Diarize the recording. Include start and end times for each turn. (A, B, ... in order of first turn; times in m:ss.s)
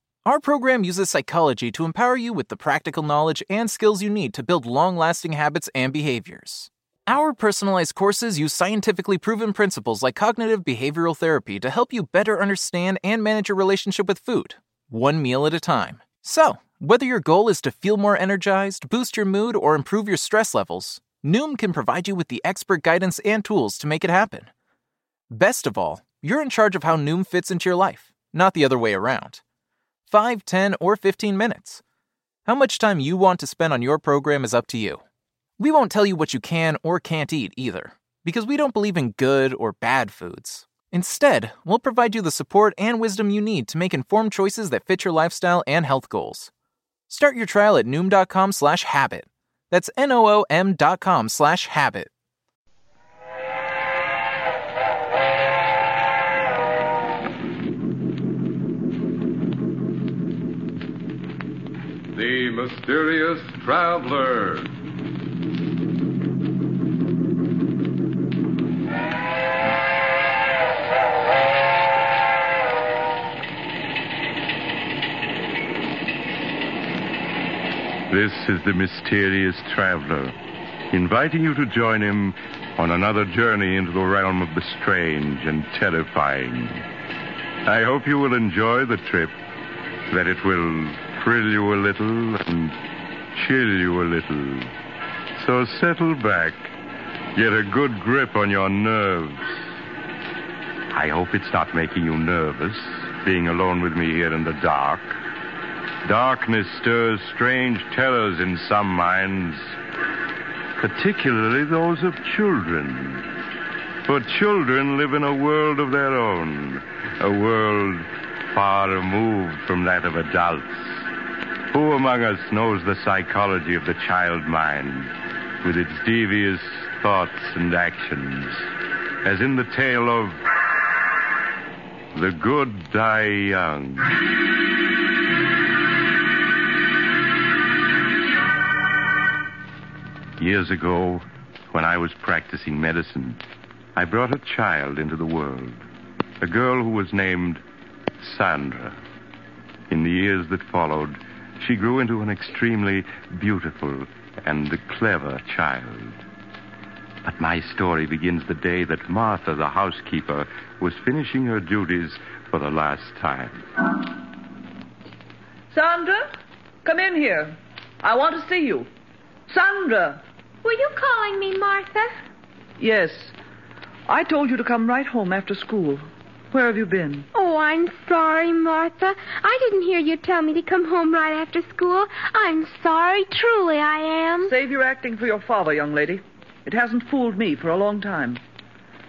0:00.2-0:24.5 A
0:25.3-0:29.4 A
0:30.1-0:31.8 A
0:32.5-0:35.0 A
0:35.6-0:46.5 A
0:47.1-0:52.1 A
1:02.1-1:04.7 B
1:18.1-1:20.4 C
1:20.9-1:26.9 C
1:27.6-1:29.4 C
1:30.1-1:32.8 C
1:33.3-1:34.7 C
1:35.4-1:36.7 C
1:37.4-1:39.6 C
1:40.9-1:45.2 C
1:46.0-1:49.7 C
1:50.8-1:53.3 C
1:54.0-2:01.1 C
2:01.7-2:08.7 C
2:09.2-2:10.4 C
2:12.1-2:14.1 C
2:20.4-2:23.4 C
2:24.0-2:25.8 C
2:26.4-2:27.6 C
2:28.2-2:29.0 C
2:29.9-2:36.2 C
2:37.2-2:43.6 C
2:45.7-2:46.3 D
2:46.8-2:48.9 D
2:49.5-2:50.2 D
2:50.6-2:52.2 E
2:52.8-2:53.4 D
2:54.1-2:57.3 D
2:57.3-3:04.5 E
3:04.4-3:08.4 D